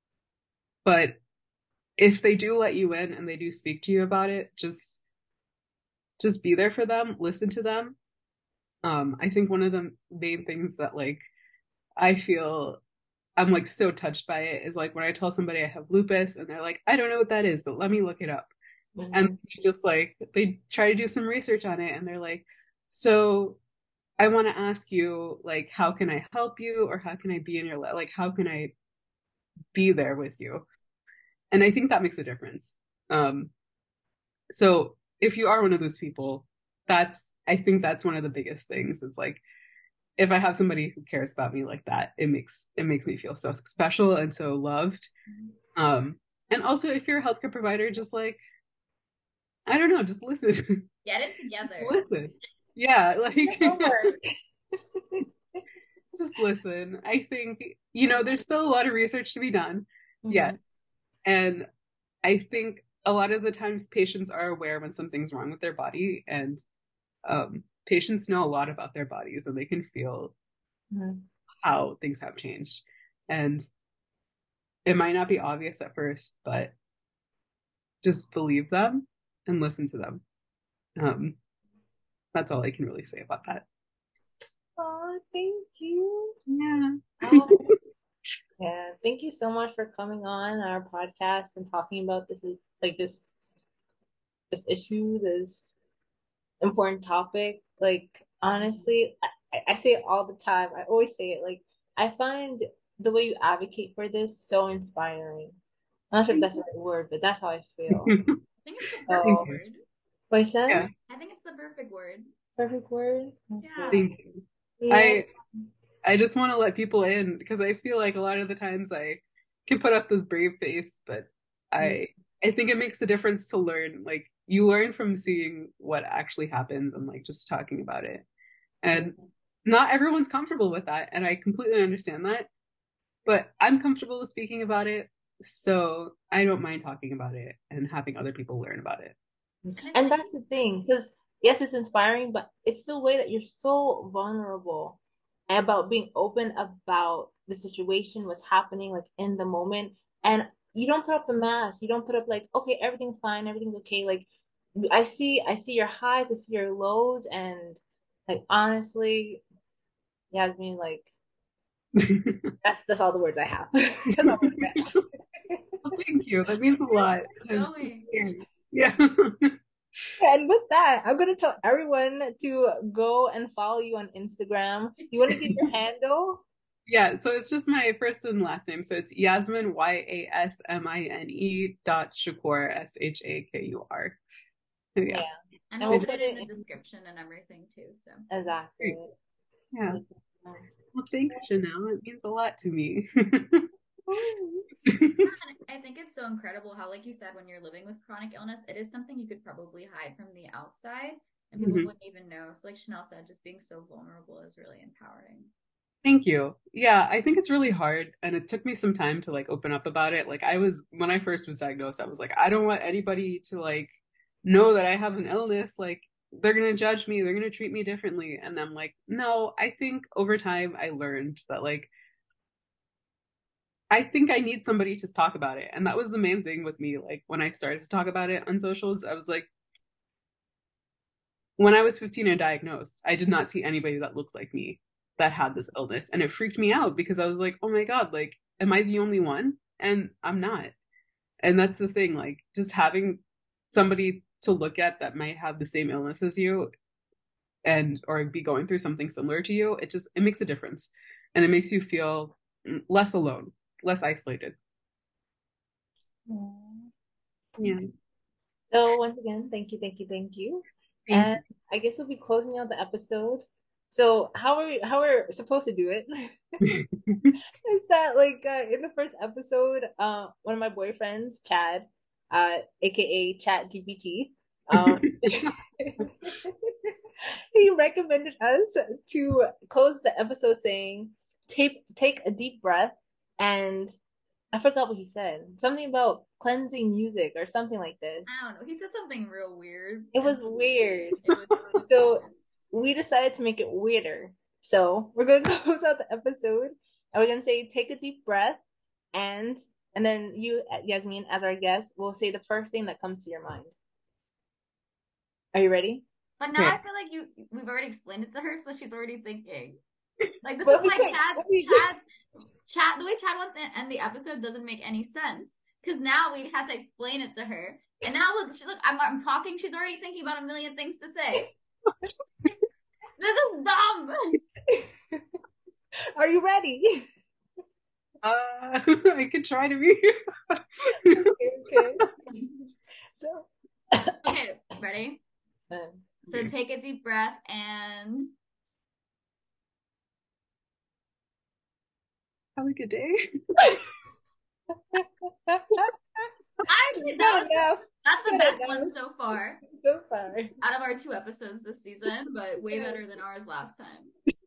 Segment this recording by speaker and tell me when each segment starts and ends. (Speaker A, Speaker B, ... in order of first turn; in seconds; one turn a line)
Speaker A: 0.8-1.2
Speaker A: 2.0-5.0
Speaker A: 6.2-8.0
Speaker A: 8.8-11.2
Speaker A: 12.0-12.8
Speaker A: 13.4-18.5
Speaker B: 19.0-19.4
Speaker A: 19.1-23.6
Speaker A: 24.2-28.7
Speaker A: 29.7-30.7
Speaker A: 31.5-33.5
Speaker A: 34.5-39.4
Speaker A: 40.2-45.1
Speaker A: 45.8-48.4
Speaker A: 49.7-50.9
Speaker C: 51.0-52.0
Speaker A: 51.8-54.1
Speaker B: 53.5-54.4
Speaker B: 55.0-55.3
Speaker A: 56.2-60.6
Speaker B: 60.2-60.6
Speaker A: 61.2-61.7
Speaker A: 62.2-66.6
Speaker A: 67.2-70.3
Speaker B: 70.9-71.2
Speaker A: 71.6-73.7
Speaker A: 74.8-76.7
Speaker A: 78.0-80.2
Speaker A: 81.0-81.4
Speaker A: 82.3-83.7
Speaker B: 84.8-86.3
Speaker A: 86.5-87.7
Speaker B: 87.2-87.7
Speaker B: 88.6-93.6
Speaker B: 94.5-95.7
Speaker B: 96.6-105.6
Speaker B: 106.1-108.2
Speaker A: 108.0-108.4
Speaker C: 108.7-109.8
Speaker B: 109.1-109.5
Speaker A: 109.2-109.6
Speaker B: 110.3-110.8
Speaker C: 111.1-112.3
Speaker B: 112.6-114.1
Speaker C: 113.6-114.1
Speaker A: 113.9-114.3
Speaker B: 114.8-115.2
Speaker A: 114.9-115.3
Speaker A: 116.0-128.2
Speaker A: 128.8-129.1
Speaker A: 129.7-132.5
Speaker A: 133.3-139.2
Speaker B: 139.7-159.4
Speaker C: 139.8-140.4
Speaker B: 160.3-161.1
Speaker A: 162.0-162.5
Speaker B: 162.6-164.9
Speaker A: 164.2-165.0
Speaker B: 165.5-165.8
Speaker A: 165.9-169.6
Speaker C: 167.4-168.1
Speaker B: 170.2-176.4
Speaker A: 176.9-184.2
Speaker A: 185.0-185.3
Speaker B: 185.1-186.6
Speaker C: 185.7-188.2
Speaker B: 188.3-189.1
Speaker A: 189.7-190.0
Speaker B: 189.9-190.7
Speaker A: 190.9-193.7
Speaker B: 194.1-194.7
Speaker A: 194.8-195.2
Speaker C: 195.1-205.5
Speaker A: 201.6-201.9
Speaker A: 206.0-221.9
Speaker A: 223.9-229.5
Speaker A: 231.6-240.7
Speaker A: 241.4-246.7
Speaker A: 247.7-254.6
Speaker B: 256.3-256.9
Speaker B: 258.7-266.6
Speaker A: 261.1-261.4
Speaker A: 266.6-267.4
Speaker B: 267.6-276.9
Speaker A: 274.8-275.5
Speaker B: 277.5-284.0
Speaker B: 284.5-288.4
Speaker C: 288.3-292.4
Speaker B: 290.1-291.2
Speaker B: 291.9-298.6
Speaker B: 299.1-303.8
Speaker B: 305.5-306.1
Speaker C: 306.4-309.8
Speaker C: 310.4-312.0
Speaker B: 310.6-311.8
Speaker C: 312.6-321.5
Speaker C: 323.2-324.4
Speaker B: 324.7-325.2
Speaker B: 326.2-327.1
Speaker A: 328.2-331.2
Speaker B: 331.0-332.1
Speaker B: 333.1-334.2
Speaker C: 334.2-335.2
Speaker B: 335.7-336.1
Speaker C: 336.3-338.3
Speaker A: 342.6-343.8
Speaker B: 344.8-346.3
Speaker C: 346.7-349.6
Speaker B: 346.9-348.9
Speaker B: 349.7-350.5
Speaker C: 350.6-354.1
Speaker B: 352.7-353.0